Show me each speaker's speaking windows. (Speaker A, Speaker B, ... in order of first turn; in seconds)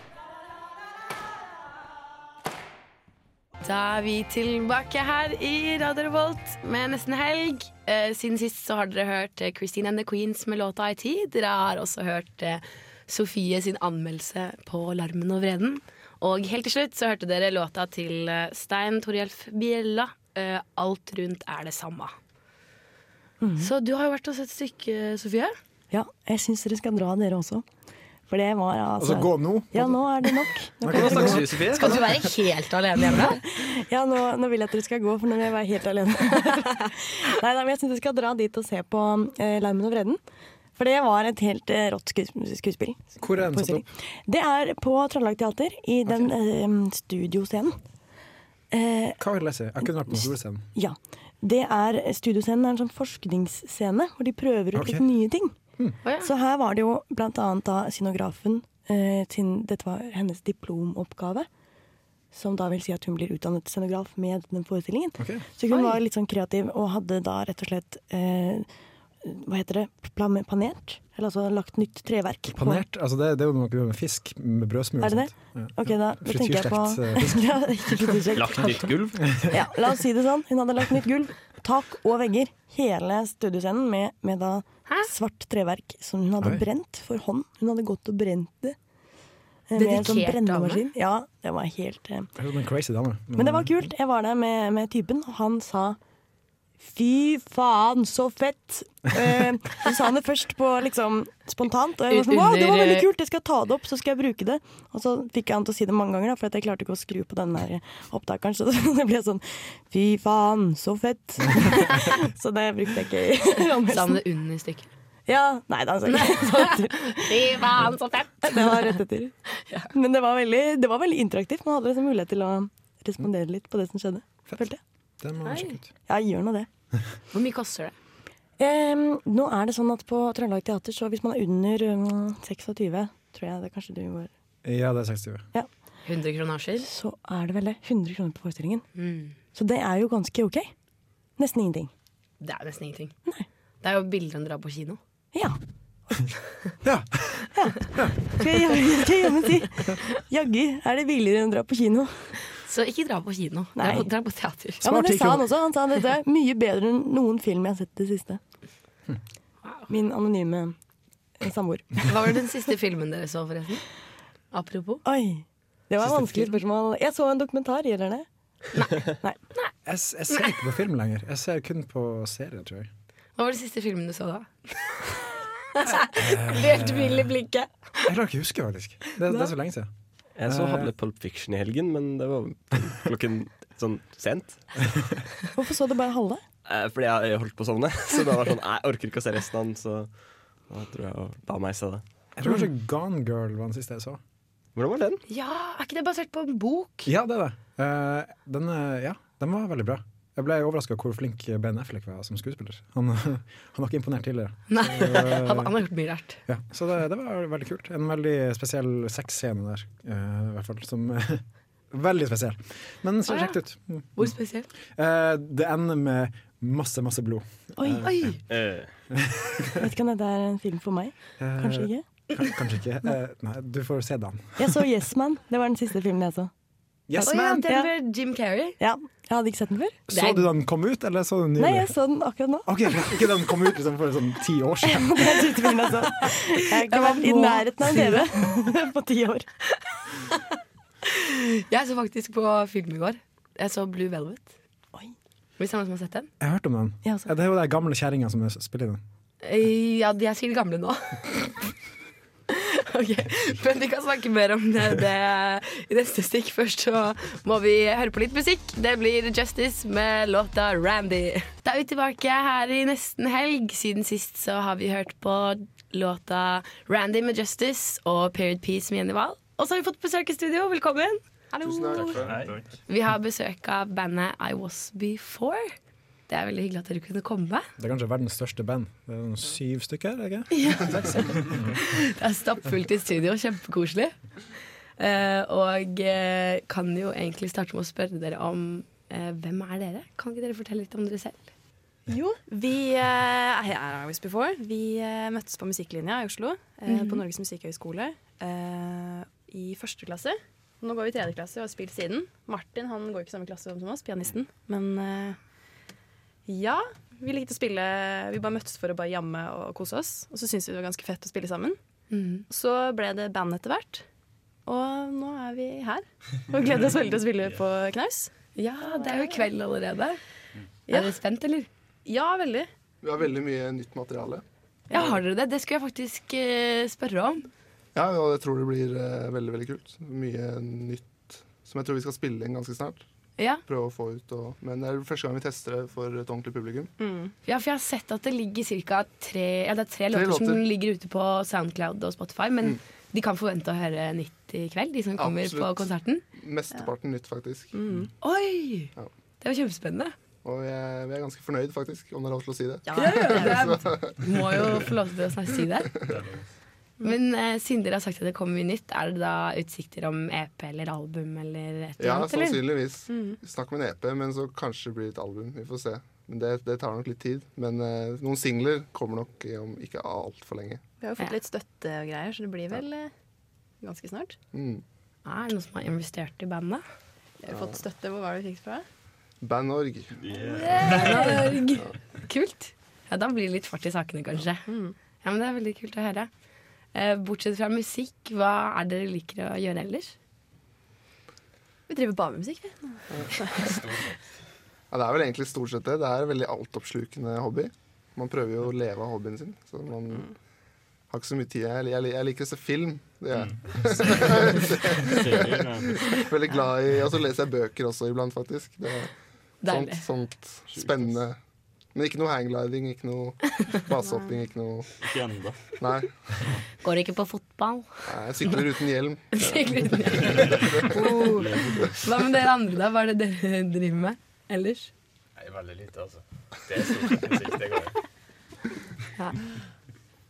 Speaker A: 3.6-22.1, 23.6-25.6, 31.7-33.4, 56.0-56.3, 65.7-66.0, 89.8-90.8, 102.1-103.1, 113.9-114.9, 116.2-118.9, 125.4-125.8, 127.3-128.0, 136.1-136.9, 139.0-139.3, 142.4-143.1, 143.8-145.0, 152.6-154.8, 162.1-163.8, 164.5-165.0, 166.1-166.5, 168.8-169.0, 173.4-175.2, 175.8-177.7, 195.3-197.1, 204.7-206.4, 213.3-213.6, 214.2-214.7, 218.0-218.4, 227.2-228.8, 230.1-230.5, 236.8-238.3, 241.0-244.5, 245.6-246.3, 249.4-251.5, 252.5-271.2, 272.9-275.7, 276.3-277.7, 280.5-284.1, 285.0-291.5, 296.9-297.2, 312.1-312.4, 318.6-320.2, 320.9-321.7, 324.9-327.4, 333.4-333.6, 337.4-346.2, 348.2-350.1, 352.9-355.9, 357.0-362.6, 375.2-376.8, 380.6-384.7, 385.2-386.3, 386.9-390.1, 409.6-410.1, 416.8-417.9, 419.4-424.9
Speaker B: 23.4-23.7, 25.9-27.6, 28.3-31.5, 33.2-40.2, 40.8-47.8, 48.7-49.2, 50.1-55.5, 56.2-61.5, 62.3-68.7, 69.2-72.8, 75.0-78.9, 79.5-88.8, 89.7-92.3, 93.4-96.0, 96.8-114.2, 115.3-117.7, 118.4-119.3, 119.9-124.8, 126.1-126.7, 128.6-134.3, 136.8-138.8, 139.5-140.7, 141.4-141.9, 147.5-152.3, 153.8-154.1, 154.8-158.4, 159.9-160.8, 161.4-162.1, 165.0-168.3, 185.6-186.4, 217.8-218.1, 219.8-222.0, 224.6-226.5, 227.2-227.9, 228.8-230.0, 231.6-232.7, 234.8-239.5
Speaker C: 29.0-30.1, 30.8-31.6, 43.2-43.9, 49.2-50.7, 54.8-55.1, 65.2-65.5, 72.5-77.6, 92.4-93.9, 125.2-125.9, 134.6-135.5, 146.8-148.1, 154.8-155.4, 169.8-172.9, 176.2-177.3, 178.0-179.9, 180.5-180.9, 192.4-194.2, 197.1-205.8, 206.5-214.3, 215.0-218.2, 221.4-224.7, 227.1-227.7, 230.1-231.9, 232.7-235.3, 246.4-249.0, 277.8-281.6
Speaker D: 30.9-32.1, 78.3-79.4, 180.4-184.6, 186.7-190.1, 190.7-192.0, 194.8-195.2, 218.5-218.9
Speaker E: 271.6-272.2, 292.1-305.4, 306.5-311.8, 312.5-314.1, 314.6-319.4, 320.9-321.1, 322.1-322.7, 337.0-337.3, 347.7-348.1, 352.9-353.8, 363.1-363.4, 371.0-373.1, 373.8-374.4, 377.4-378.9, 384.7-384.9, 391.9-393.8, 420.9-421.4
Speaker F: 271.6-272.4, 323.0-324.4, 327.9-333.0, 333.7-336.9, 340.1-340.6, 345.2-347.8, 350.4-354.4, 362.0-370.8, 374.5-374.8, 379.4-380.1, 394.9-400.3, 401.1-409.1, 409.6-411.4, 411.9-414.9, 415.8-416.1, 418.1-419.6, 420.8-421.2
Speaker G: 272.0-272.8, 356.1-356.4, 380.2-381.6, 403.4-406.1, 410.7-411.2, 415.0-415.6